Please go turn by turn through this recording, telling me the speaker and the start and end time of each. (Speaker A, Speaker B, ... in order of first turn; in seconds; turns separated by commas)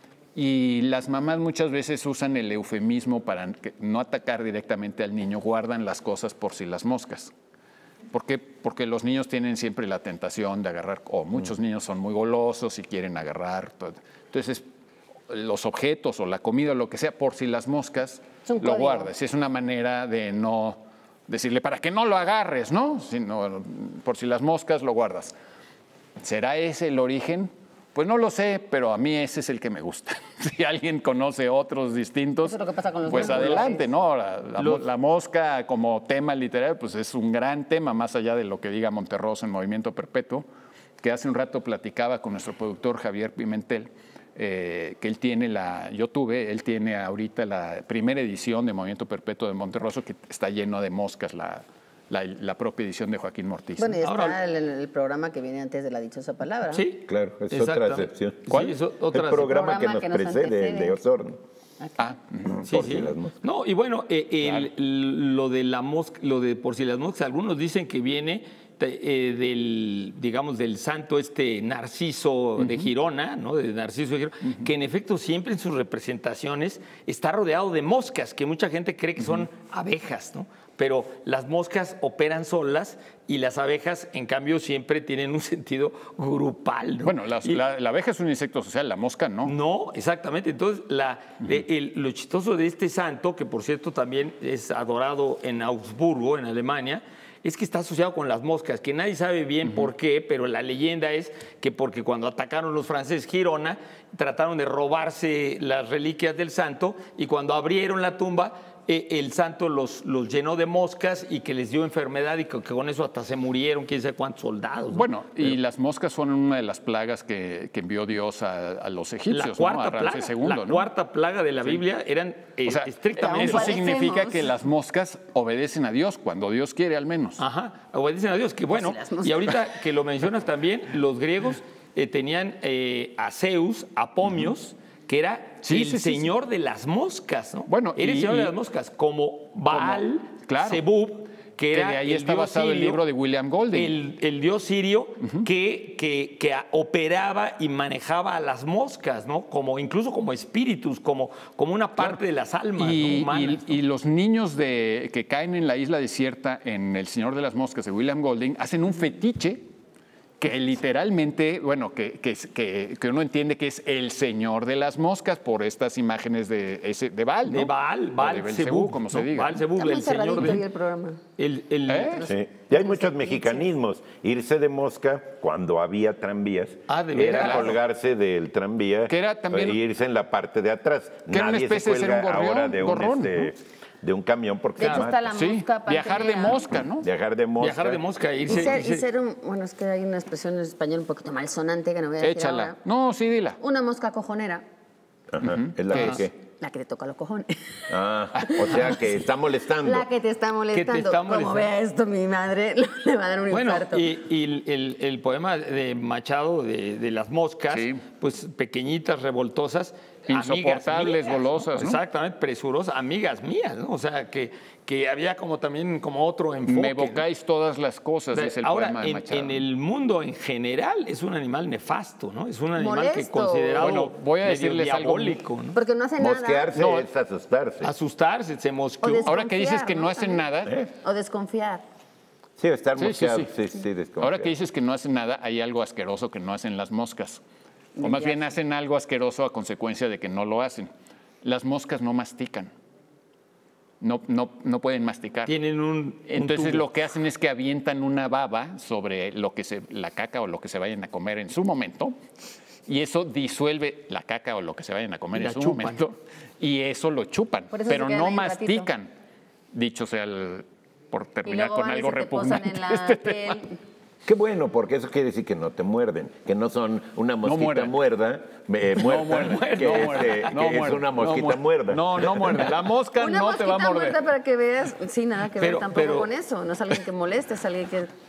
Speaker A: 0.3-7.3, Speaker A: 8.1-14.6, Speaker A: 15.3-25.3, Speaker B: 18.4-19.1, Speaker A: 26.2-40.4, Speaker B: 32.4-33.9, Speaker C: 33.1-33.7, Speaker C: 34.6-34.8, Speaker A: 41.0-54.0, Speaker B: 53.8-56.9, Speaker C: 54.0-54.4, Speaker C: 56.7-59.5, Speaker D: 57.0-58.5, Speaker D: 59.1-61.4, Speaker B: 59.4-61.0, Speaker B: 61.8-62.1, Speaker A: 62.0-62.5, Speaker D: 62.4-63.4, Speaker C: 62.6-87.6, Speaker A: 72.6-72.9, Speaker A: 87.0-89.5, Speaker C: 89.4-115.6, Speaker A: 114.9-120.9, Speaker C: 119.3-123.8, Speaker A: 122.7-127.4, Speaker B: 123.2-124.5, Speaker C: 127.4-143.0, Speaker B: 128.7-129.6, Speaker A: 135.6-136.3, Speaker A: 137.7-138.5, Speaker A: 139.7-140.8, Speaker A: 141.7-143.9, Speaker C: 143.7-153.8, Speaker A: 152.8-159.7, Speaker A: 160.4-169.6, Speaker C: 167.4-170.6, Speaker B: 169.8-171.2, Speaker C: 171.4-172.3, Speaker A: 171.9-172.2, Speaker B: 172.2-173.6, Speaker D: 172.2-185.2, Speaker C: 176.9-177.8, Speaker A: 177.4-177.7, Speaker A: 179.1-179.8, Speaker A: 181.3-183.5, Speaker B: 184.8-186.7, Speaker A: 185.3-187.1, Speaker D: 187.0-188.0, Speaker C: 187.6-189.0, Speaker B: 188.5-192.8, Speaker A: 192.2-193.6, Speaker B: 193.6-194.6, Speaker D: 195.3-196.3, Speaker A: 195.4-196.2, Speaker B: 196.6-198.9, Speaker D: 197.9-200.1, Speaker B: 199.8-204.1, Speaker C: 200.7-201.7, Speaker C: 203.5-217.2, Speaker A: 207.7-208.0, Speaker A: 210.3-212.0, Speaker A: 216.7-219.6, Speaker C: 218.3-225.8, Speaker B: 222.8-223.9, Speaker A: 223.8-225.4, Speaker B: 225.7-226.7, Speaker D: 226.2-227.9, Speaker A: 226.8-227.1, Speaker C: 227.8-229.3, Speaker B: 229.0-231.8, Speaker A: 229.2-230.8, Speaker D: 232.6-234.5, Speaker A: 233.0-233.5, Speaker A: 234.2-237.4, Speaker B: 238.0-238.5, Speaker A: 238.0-240.9, Speaker A: 241.4-242.7, Speaker A: 244.0-245.5, Speaker C: 245.5-246.9, Speaker A: 246.3-252.2, Speaker A: 252.8-259.1, Speaker C: 255.3-256.0, Speaker B: 257.7-258.9, Speaker A: 259.7-263.6, Speaker B: 261.4-263.8, Speaker D: 264.2-272.6, Speaker A: 267.4-267.9, Speaker A: 269.0-274.2, Speaker C: 269.5-270.5, Speaker B: 273.2-278.1, Speaker C: 275.6-276.3